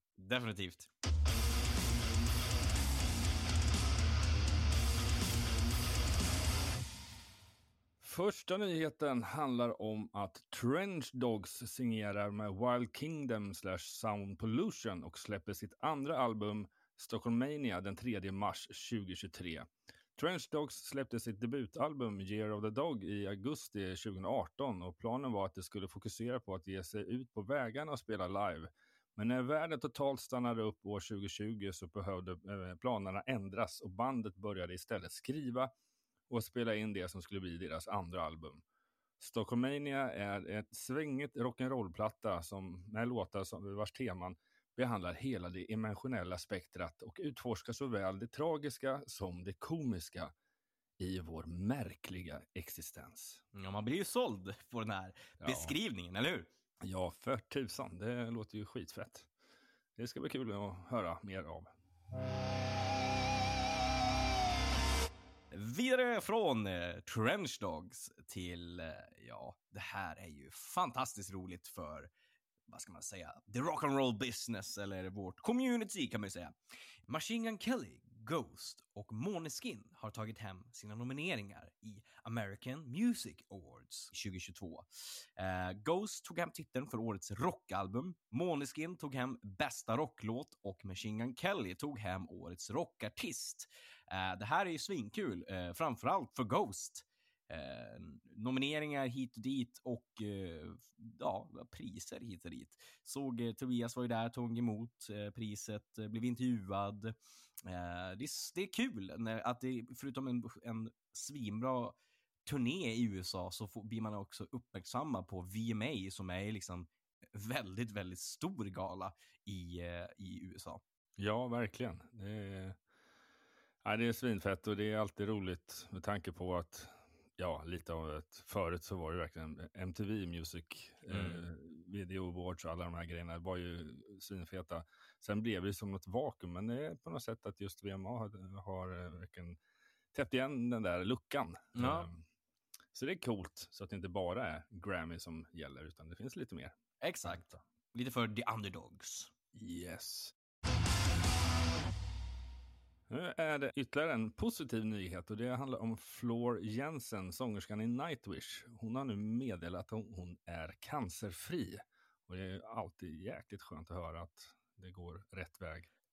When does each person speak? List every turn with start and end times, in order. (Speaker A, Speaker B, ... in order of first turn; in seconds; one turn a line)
Speaker A: 0.2-0.9
Speaker B: 8.0-35.7
Speaker B: 36.3-38.6
Speaker B: 39.2-50.3
Speaker B: 51.0-53.4
Speaker A: 53.5-56.5
Speaker B: 55.4-55.8
Speaker B: 56.8-59.3
Speaker B: 60.0-61.7
Speaker A: 65.5-72.1
Speaker A: 72.7-76.6
Speaker A: 77.1-120.8
Speaker B: 121.2-122.8
Speaker B: 123.8-139.6
Speaker A: 131.1-131.4
Speaker B: 140.1-142.2
Speaker A: 141.8-142.1
Speaker B: 142.9-147.6
Speaker A: 147.0-149.3
Speaker B: 149.5-150.3
Speaker B: 153.1-165.9